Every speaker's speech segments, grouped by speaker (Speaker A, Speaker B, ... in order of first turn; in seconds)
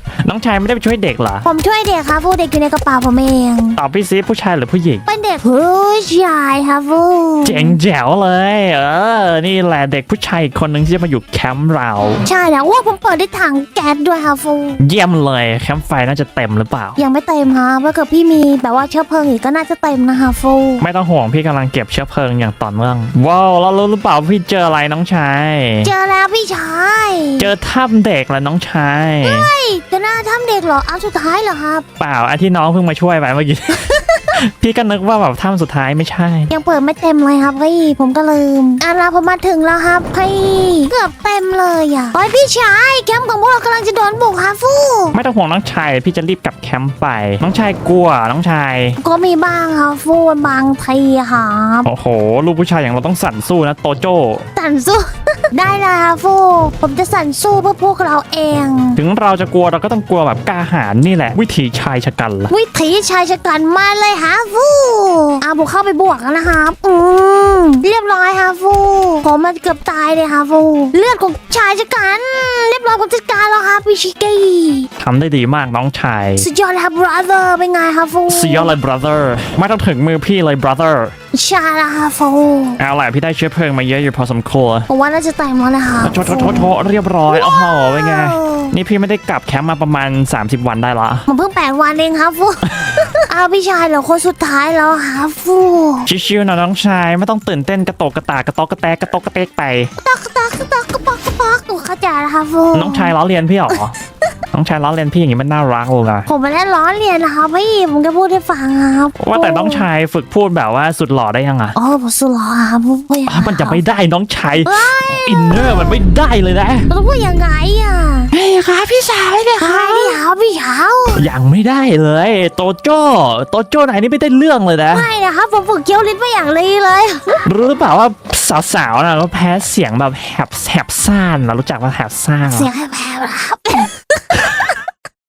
Speaker A: 0.2-1.5, 3.8-5.1, 7.4-12.2, 14.8-17.0, 20.8-25.9, 27.4-29.5, 32.0-36.5, 45.1-49.0, 51.9-54.5, 59.0-62.5, 75.0-76.5, 78.3-81.1, 82.8-84.9, 86.0-91.3, 92.7-93.0, 96.1-99.9, 102.7-103.9, 104.5-106.3, 109.2-111.8, 113.3-116.9, 118.3-120.2, 121.2-125.1, 127.5-132.7
Speaker B: 1.4-3.8, 5.1-7.8, 12.2-14.8, 17.0-20.8, 25.8-27.5, 29.2-31.8, 33.8-34.4, 36.5-45.2, 49.0-51.9, 54.6-59.0, 62.5-74.9, 76.4-78.8, 81.3-82.8, 84.9-86.7, 87.3-88.8, 91.3-96.1, 100.0-103.1, 106.3-109.9, 111.8-113.8, 114.6-116.0, 116.9-118.3, 119.6-121.3, 124.9-127.5, 132.5-134.3